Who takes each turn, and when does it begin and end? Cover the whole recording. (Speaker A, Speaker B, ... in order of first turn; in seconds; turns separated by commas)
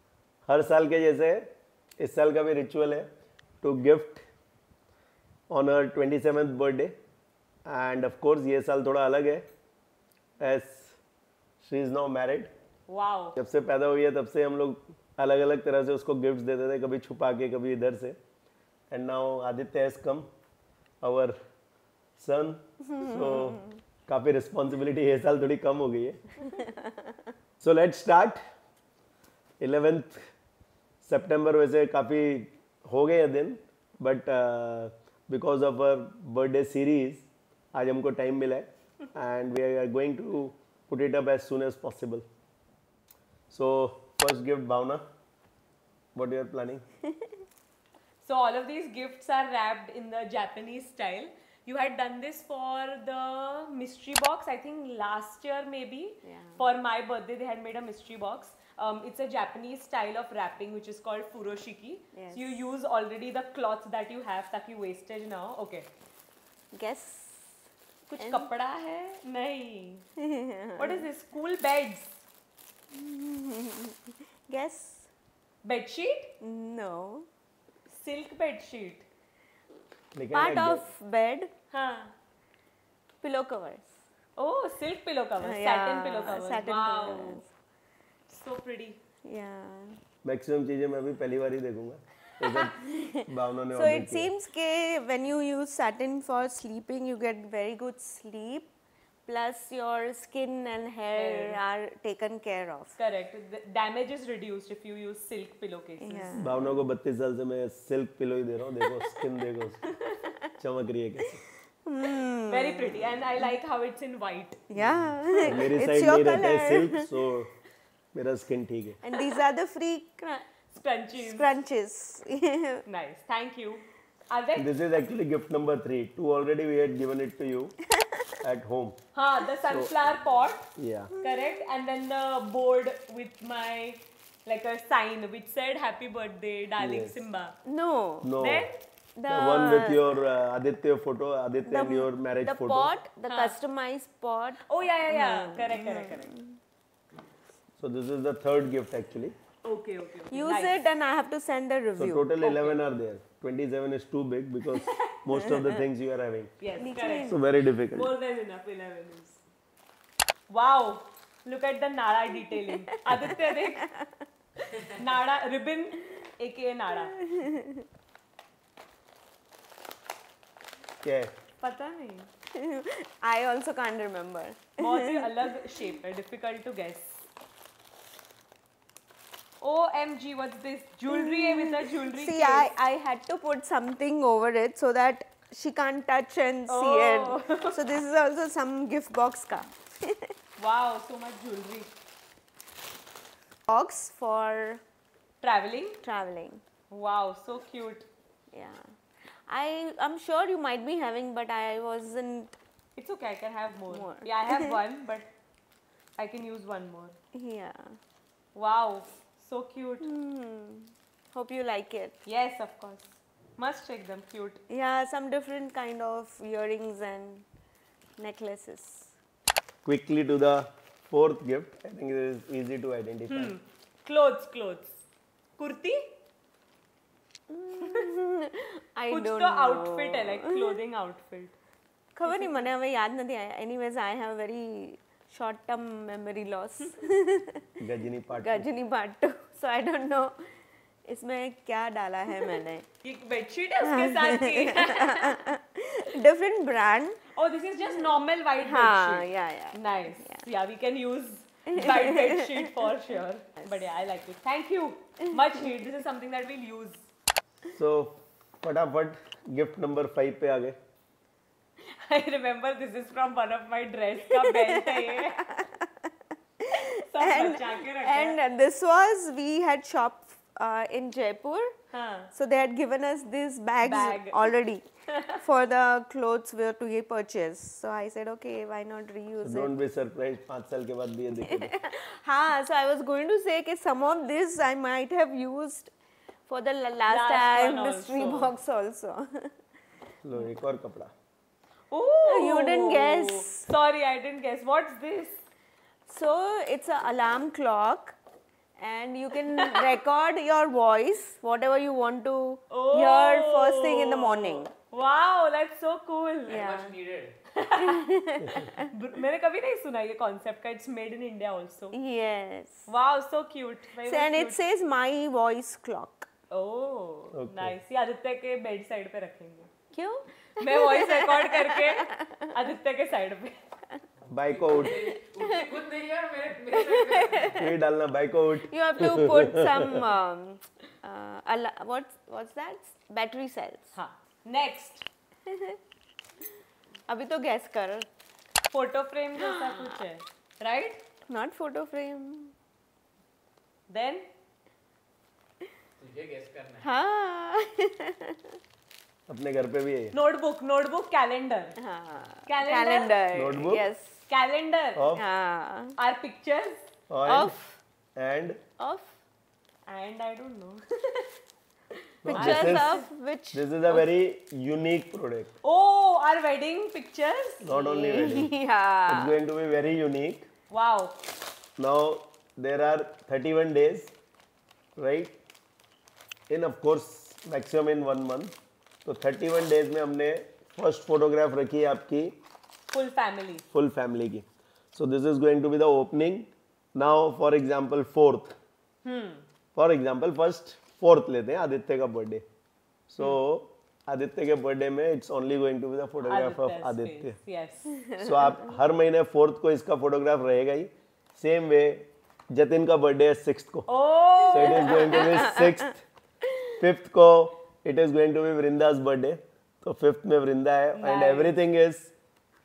Speaker A: 0.5-1.5, Speaker A: 2.0-3.1, Speaker A: 3.6-4.2, Speaker A: 5.5-6.9, Speaker A: 7.7-9.4, Speaker A: 10.4-10.9, Speaker A: 11.6-12.5, Speaker B: 12.9-13.4, Speaker A: 13.4-18.2, Speaker A: 18.9-20.3, Speaker A: 21.0-21.4, Speaker A: 22.2-26.4, Speaker C: 22.9-23.8, Speaker C: 26.5-27.2, Speaker A: 27.6-28.4, Speaker A: 29.6-30.3, Speaker A: 31.0-42.2, Speaker A: 43.5-45.0, Speaker A: 46.1-46.8, Speaker C: 47.0-47.4, Speaker B: 48.2-65.9, Speaker C: 56.2-56.6, Speaker C: 62.1-62.7, Speaker C: 66.7-67.6, Speaker B: 68.1-70.0, Speaker C: 68.2-68.5, Speaker C: 70.2-71.0, Speaker B: 70.8-72.2, Speaker C: 72.9-75.1, Speaker B: 75.6-76.3, Speaker C: 76.4-77.3, Speaker B: 77.9-79.0, Speaker A: 80.1-80.8, Speaker C: 80.3-81.5, Speaker B: 81.7-82.1, Speaker C: 83.2-83.9, Speaker B: 84.4-87.4, Speaker C: 85.4-87.5, Speaker B: 88.3-89.0, Speaker C: 89.2-90.0, Speaker A: 90.2-94.3, Speaker B: 92.5-93.0, Speaker C: 92.8-98.7, Speaker C: 99.2-103.0, Speaker B: 101.2-101.6, Speaker B: 103.0-106.3, Speaker C: 106.0-106.8, Speaker A: 106.4-109.9, Speaker A: 110.6-111.4, Speaker C: 111.8-113.0, Speaker B: 112.5-114.6, Speaker C: 114.7-117.1, Speaker A: 115.4-117.5, Speaker A: 118.1-119.0, Speaker C: 119.0-120.5, Speaker B: 120.7-121.5, Speaker C: 121.2-122.8, Speaker B: 122.9-124.7, Speaker A: 124.5-127.7, Speaker C: 127.9-128.4, Speaker A: 128.4-129.0, Speaker B: 129.2-130.7, Speaker A: 129.7-129.9, Speaker A: 130.8-131.1, Speaker B: 131.2-137.6, Speaker A: 136.8-137.2, Speaker C: 137.7-138.3, Speaker A: 138.2-138.7, Speaker B: 138.4-138.8, Speaker C: 139.2-140.1, Speaker A: 139.3-142.9, Speaker C: 141.7-146.6, Speaker B: 143.3-143.6, Speaker B: 144.7-146.3, Speaker A: 147.8-149.3, Speaker B: 149.6-150.8, Speaker C: 150.3-152.3, Speaker A: 152.0-156.6, Speaker B: 152.4-152.8, Speaker B: 154.7-155.2, Speaker C: 155.3-155.7, Speaker B: 156.6-159.4, Speaker C: 156.8-157.4, Speaker A: 157.3-158.2, Speaker B: 160.5-163.9, Speaker C: 162.5-164.2, Speaker B: 164.7-167.2, Speaker C: 167.2-167.9, Speaker A: 171.0-171.3, Speaker B: 171.6-172.3, Speaker C: 172.6-175.4, Speaker B: 174.8-177.2, Speaker B: 179.6-182.7, Speaker C: 181.1-190.3, Speaker B: 186.7-187.8, Speaker B: 190.6-191.9, Speaker C: 193.7-194.8, Speaker B: 195.4-196.0, Speaker C: 196.0-196.6, Speaker B: 196.9-198.1, Speaker C: 198.5-198.8, Speaker C: 199.5-202.6, Speaker B: 203.0-205.3, Speaker C: 203.9-204.8, Speaker B: 206.2-207.2, Speaker C: 207.3-208.0, Speaker B: 208.5-210.1, Speaker C: 210.0-212.2, Speaker B: 212.3-214.6, Speaker C: 214.7-217.4, Speaker C: 218.2-219.1, Speaker A: 219.8-223.6, Speaker B: 223.3-225.0, Speaker B: 225.6-226.1, Speaker C: 227.5-230.8, Speaker B: 229.1-231.6, Speaker C: 232.2-237.8, Speaker A: 237.8-238.7, Speaker C: 238.4-240.4, Speaker C: 241.1-242.9, Speaker B: 243.0-245.3, Speaker C: 243.8-247.2, Speaker B: 247.3-257.1, Speaker C: 248.6-250.4, Speaker C: 251.7-252.7, Speaker C: 255.3-255.6, Speaker A: 257.7-260.8, Speaker B: 261.8-265.4, Speaker C: 264.3-271.7, Speaker B: 266.9-268.4, Speaker B: 271.9-272.3, Speaker C: 272.3-274.9, Speaker B: 273.8-274.5, Speaker B: 275.1-275.4, Speaker C: 275.4-279.7, Speaker A: 279.4-281.8, Speaker C: 281.4-285.9, Speaker C: 286.5-289.5, Speaker B: 287.1-288.5, Speaker A: 290.2-291.1, Speaker B: 291.9-295.4, Speaker C: 292.2-293.7, Speaker C: 296.1-298.1, Speaker C: 298.8-304.7, Speaker B: 299.6-299.8, Speaker B: 302.7-306.6, Speaker C: 306.5-307.0, Speaker D: 306.5-307.3, Speaker B: 307.5-311.9, Speaker C: 307.8-308.9, Speaker C: 311.9-312.9, Speaker B: 312.9-314.6, Speaker C: 314.0-316.3, Speaker B: 316.5-319.7, Speaker A: 317.3-317.8, Speaker C: 319.9-322.5, Speaker B: 320.6-323.6, Speaker A: 324.3-325.1, Speaker D: 324.4-327.6, Speaker C: 325.0-325.8, Speaker C: 326.7-327.7, Speaker A: 327.5-330.0, Speaker C: 328.6-333.9, Speaker B: 333.9-335.1, Speaker C: 335.5-335.8, Speaker C: 337.1-338.1, Speaker B: 338.7-341.0, Speaker C: 339.4-339.9, Speaker C: 341.3-342.5, Speaker B: 343.9-344.2, Speaker D: 346.0-346.8, Speaker C: 346.8-348.6, Speaker A: 349.3-350.1, Speaker B: 350.1-351.8, Speaker C: 351.8-354.2, Speaker B: 352.4-353.2, Speaker A: 353.3-353.9, Speaker B: 354.3-355.1, Speaker A: 354.9-355.2, Speaker C: 355.1-355.9, Speaker B: 356.0-356.9, Speaker A: 357.1-357.5, Speaker C: 357.2-357.8, Speaker A: 358.1-358.6, Speaker C: 358.8-359.1, Speaker B: 359.9-361.3, Speaker A: 362.2-362.9, Speaker C: 362.2-364.0, Speaker B: 362.3-363.1, Speaker A: 363.5-365.5, Speaker B: 365.6-367.7, Speaker A: 367.6-368.5, Speaker C: 367.7-369.4, Speaker A: 369.1-370.5, Speaker B: 370.7-371.2, Speaker A: 371.8-374.1, Speaker A: 375.0-375.4, Speaker A: 376.5-378.5, Speaker A: 379.0-382.4, Speaker B: 382.9-383.6, Speaker A: 383.7-388.5, Speaker B: 389.0-389.4, Speaker A: 389.8-392.4, Speaker A: 393.1-397.4, Speaker B: 396.2-398.0, Speaker C: 397.9-398.8, Speaker A: 398.2-403.9, Speaker B: 403.9-405.6, Speaker A: 404.5-406.0, Speaker C: 404.6-405.6, Speaker A: 406.8-412.1, Speaker B: 410.9-411.6